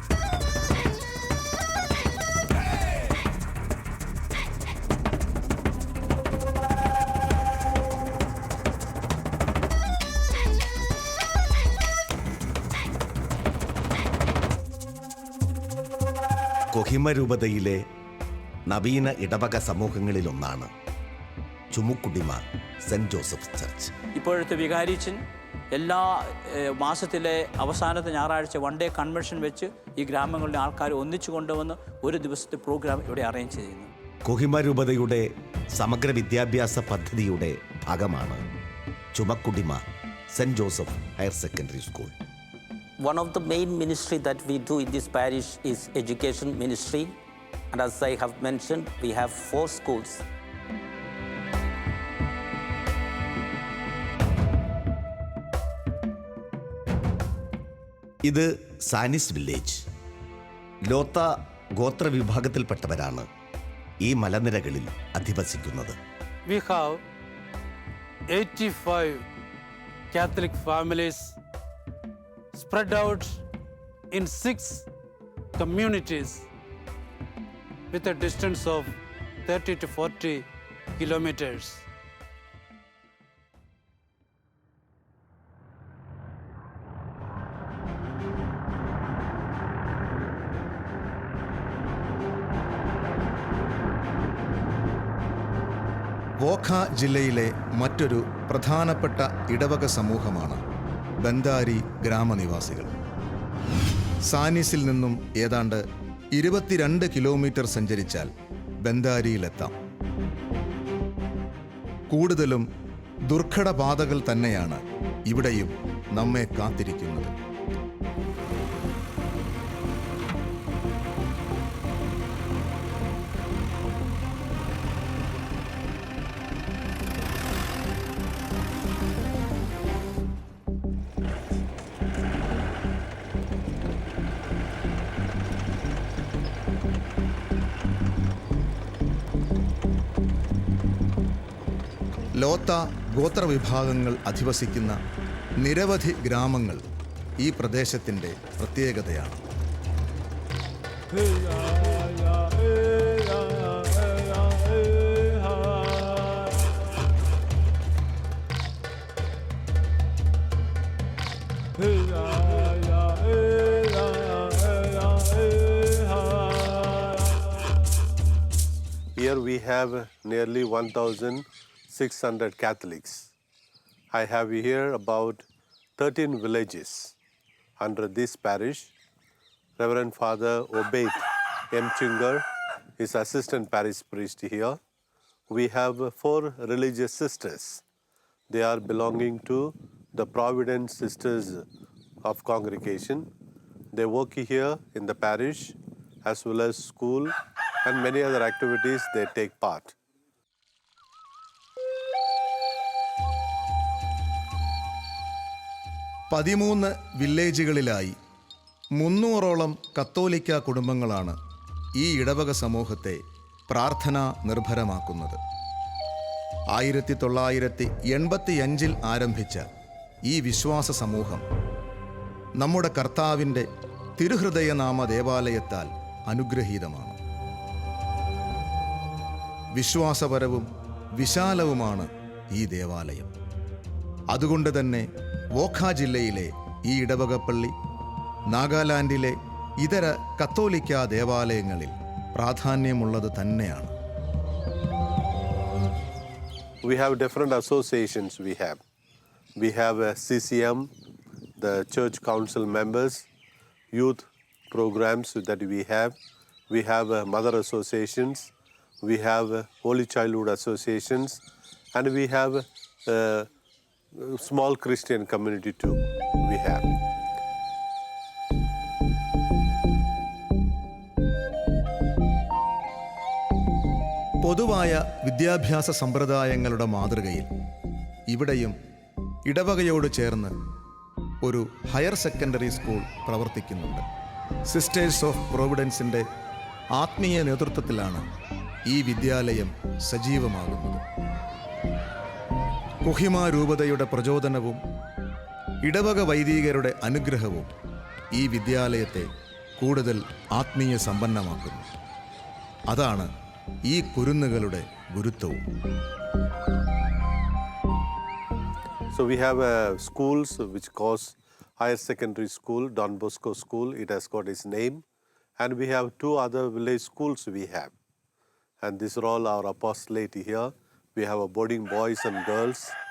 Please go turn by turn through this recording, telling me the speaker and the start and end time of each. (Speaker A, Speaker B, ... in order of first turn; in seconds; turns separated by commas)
Speaker A: 16.7-17.8, Speaker A: 18.7-20.7, Speaker A: 21.7-23.9, Speaker B: 24.1-33.9, Speaker A: 34.3-38.4, Speaker A: 39.1-39.8, Speaker A: 40.3-42.1, Speaker C: 43.0-47.2, Speaker C: 47.7-50.2, Speaker A: 58.2-59.8, Speaker A: 60.9-63.3, Speaker A: 64.0-66.0, Speaker D: 66.5-67.0, Speaker D: 68.3-69.2, Speaker D: 70.1-71.4, Speaker D: 72.5-73.4, Speaker D: 74.1-74.9, Speaker D: 75.6-76.5, Speaker D: 77.9-79.0, Speaker D: 79.5-81.8, Speaker E: 96.4-100.6, Speaker E: 101.2-102.9, Speaker E: 104.3-105.8, Speaker E: 106.3-108.3, Speaker E: 108.8-109.8, Speaker E: 112.1-112.7, Speaker E: 113.3-117.3, Speaker E: 142.4-145.0, Speaker E: 145.6-146.8, Speaker E: 147.4-149.4, Speaker F: 169.2-173.3, Speaker F: 174.1-175.4, Speaker F: 176.0-177.1, Speaker F: 177.8-178.9, Speaker F: 179.8-182.4, Speaker F: 183.0-184.8, Speaker F: 185.5-187.8, Speaker F: 188.5-191.7, Speaker F: 192.2-193.3, Speaker F: 193.9-197.3, Speaker F: 197.8-199.9, Speaker E: 206.3-208.2, Speaker E: 209.0-211.4, Speaker E: 212.0-215.4, Speaker E: 216.7-219.7, Speaker E: 220.3-221.4, Speaker E: 222.6-223.7, Speaker E: 224.2-227.2, Speaker E: 229.8-233.3, Speaker E: 234.3-237.7, Speaker E: 238.5-243.9, Speaker F: 246.8-248.8, Speaker F: 249.6-250.9, Speaker F: 251.6-253.3, Speaker F: 253.9-256.2, Speaker F: 256.7-258.5, Speaker F: 259.0-261.4, Speaker F: 261.9-263.5, Speaker F: 264.1-266.9, Speaker E: 274.4-277.5, Speaker E: 278.3-278.8, Speaker E: 279.5-280.5, Speaker E: 281.4-284.1, Speaker E: 284.7-286.2, Speaker E: 287.0-288.2, Speaker E: 288.9-291.0, Speaker E: 293.0-294.8, Speaker E: 295.9-297.7, Speaker E: 298.4-299.3, Speaker E: 299.8-301.9, Speaker E: 302.9-303.3, Speaker E: 303.9-305.6, Speaker F: 309.1-315.0, Speaker F: 315.6-317.9, Speaker F: 318.8-322.9